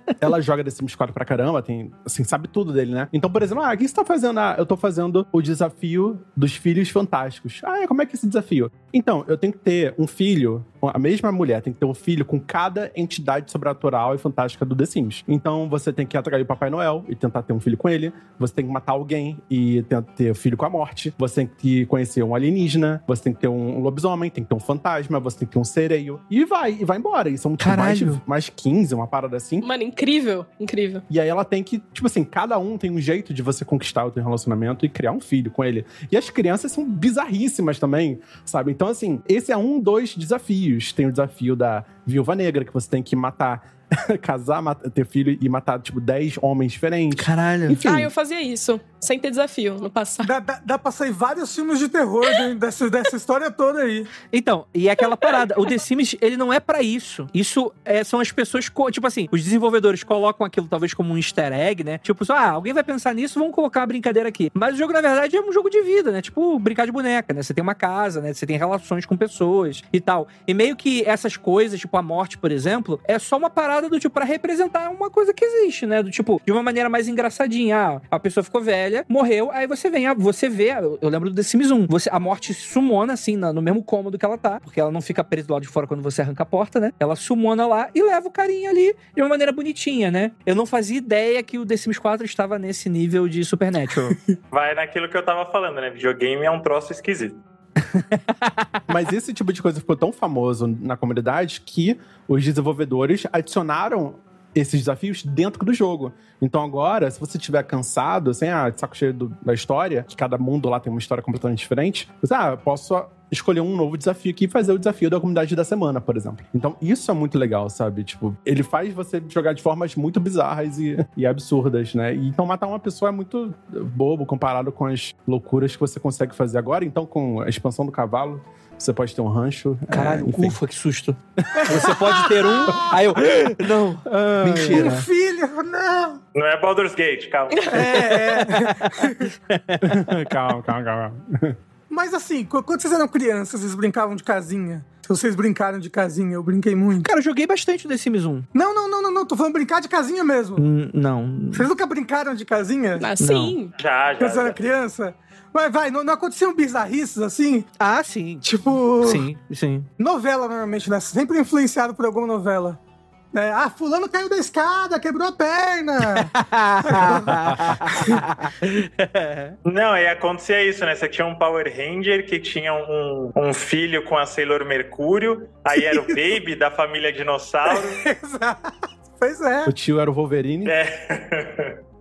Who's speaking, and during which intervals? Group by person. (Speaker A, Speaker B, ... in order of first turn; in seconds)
Speaker A: 0.2-29.7, 31.1-47.3, 98.9-130.6, 134.4-134.8, 139.8-141.6, 179.7-180.7
Speaker B: 27.6-28.2, 47.1-48.1, 54.3-94.2, 97.9-98.6, 129.9-135.1, 138.0-140.0, 147.0-148.5, 150.6-151.7, 153.2-153.5, 157.8-158.4, 159.0-159.9, 166.1-169.6
Speaker C: 29.6-31.0, 47.7-50.3, 137.5-137.8, 153.0-153.7
Speaker D: 50.2-54.1, 131.5-133.0, 134.4-136.2, 137.8-139.2, 141.9-147.1, 148.5-150.7, 151.5-153.1, 154.2-157.7, 158.4-159.3, 160.0-162.8, 163.3-166.3, 166.8-168.2, 175.8-176.2, 177.7-179.7
Speaker E: 94.5-97.4, 136.3-138.4, 153.8-154.6, 169.7-178.0, 180.6-181.8